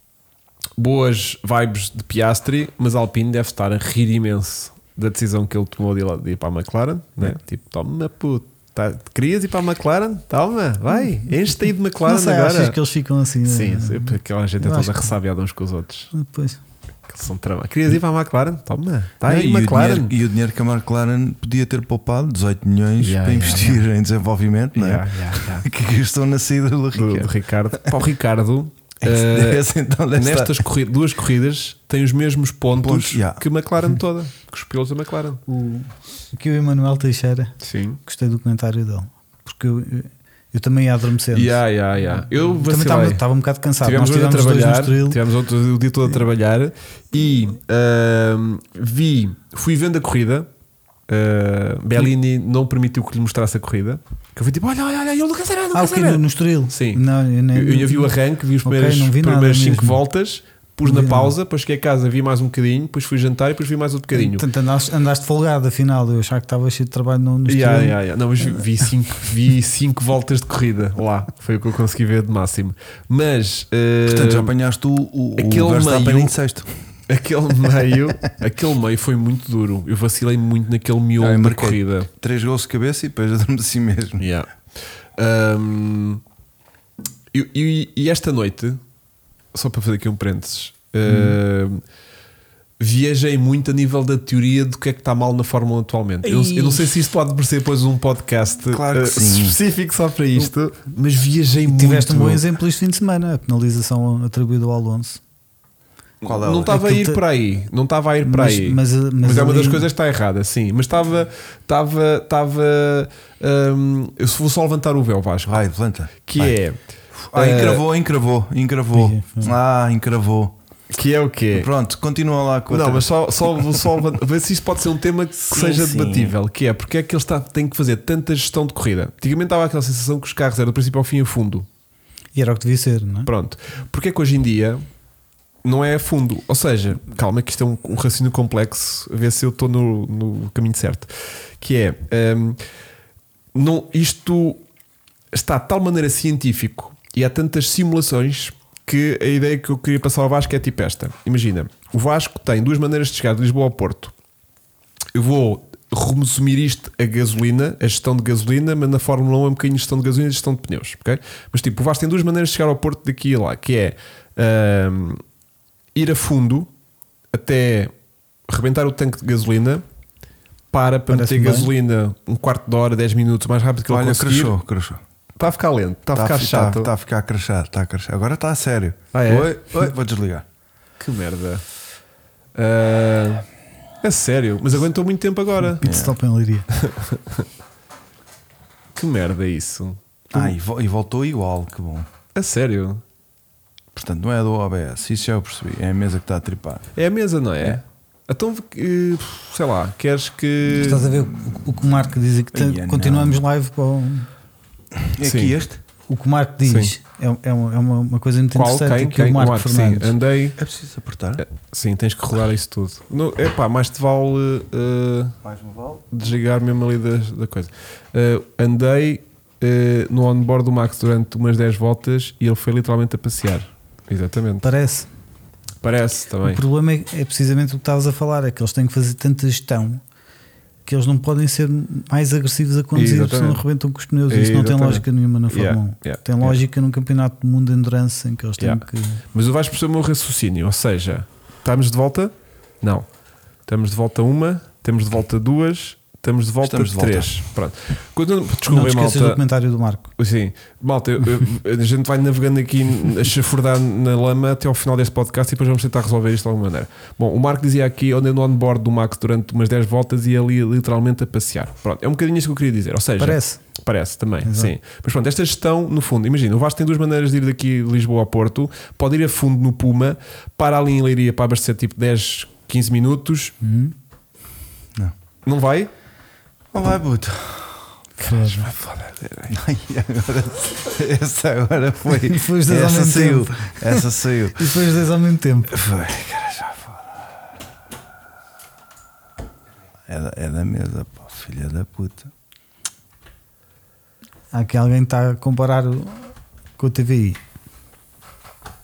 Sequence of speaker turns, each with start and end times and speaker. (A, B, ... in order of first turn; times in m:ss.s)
0:00.8-0:12.8 A
0:12.0-0:15.1 B
0:13.4-0:16.1 A
0:16.1-0:16.6 B
0:17.1-0:20.1 A
0:19.2-0:27.9 C
0:23.0-0:23.8 A
0:24.7-0:25.7 A
0:26.9-0:35.4 A
0:29.0-0:30.6 C
0:32.7-0:33.4 C
0:35.5-0:37.5 B
0:37.6-0:38.0 A
0:38.0-0:45.2 B
0:41.3-0:43.2 A
0:43.8-0:50.5 A
0:51.1-0:57.0 A
0:55.7-0:58.1 B
0:57.5-1:04.4 A
0:58.6-1:00.0 B
1:00.8-1:01.3 B
1:04.1-1:08.6 B
1:07.5-1:14.5 A
1:14.0-1:16.8 C
1:15.4-1:16.3 A
1:17.1-1:22.1 A
1:21.2-1:24.3 C
1:24.2-1:24.5 A
1:25.2-1:26.2 A
1:27.3-1:28.8 A
1:29.5-1:31.8 A
1:31.0-1:31.4 C
1:32.8-1:42.4 A
1:36.2-1:36.9 C
1:38.7-1:39.6 C
1:41.7-1:45.2 B
1:46.2-1:55.6 A
1:46.2-1:46.7 C
1:46.7-1:47.2 B
1:48.2-1:49.9 B
1:55.4-1:56.6 C
1:56.2-1:56.8 A
1:57.2-2:00.5 C
1:57.3-1:57.8 A
1:58.9-1:59.5 B
2:00.9-2:01.7 A
2:01.5-2:03.1 C
2:02.7-2:11.7 A
2:05.5-2:06.4 C
2:12.3-2:13.3 B
2:13.3-2:14.8 A
2:15.6-2:22.6 A
2:23.5-2:24.6 A
2:25.3-2:34.1 A
2:35.1-2:45.2 A
2:45.9-2:46.7 A
2:47.3-2:47.9 A
2:48.5-2:49.8 A
2:50.7-2:54.5 A
2:51.1-2:51.7 B
2:53.9-2:55.0 C
2:55.4-2:56.9 A
2:56.1-3:00.4 C
2:59.1-2:59.8 A
3:01.0-3:01.6 A
3:02.5-3:03.4 A
3:04.0-3:05.8 A
3:05.7-3:06.7 B
3:05.8-3:06.1 C
3:06.7-3:07.4 A
3:09.0-3:10.5 A
3:10.3-3:12.1 C
3:12.3-3:13.0 A
3:13.9-3:16.9 C
3:17.0-3:21.1 A
3:20.7-3:24.3 B
3:22.5-3:23.4 C
3:25.0-3:25.8 C
3:25.2-3:25.5 A
3:26.1-3:30.1 B
3:26.6-3:26.9 A
3:28.5-3:30.6 A
3:30.6-3:31.4 C
3:31.4-3:35.4 A
3:35.4-3:36.0 C
3:36.1-3:44.6 A
3:44.6-3:45.1 B
3:45.8-3:46.6 A
3:46.4-3:50.0 B
3:50.8-3:59.2 B
3:52.9-3:53.6 A
3:54.3-3:56.6 A
3:58.6-4:03.0 A
4:03.6-4:09.4 A
4:06.6-4:07.4 C
4:08.7-4:10.1 B
4:10.2-4:33.5 A
4:23.2-4:23.6 B
4:24.4-4:24.7 B
4:33.6-4:33.9 B
4:35.4-4:35.9 A
4:36.7-4:37.9 C
4:38.2-4:38.7 B
4:38.3-4:39.5 A
4:39.5-4:44.8 C
4:42.2-4:45.7 B
4:45.7-4:47.3 C
4:50.1-4:52.3 C
4:54.5-4:57.4 B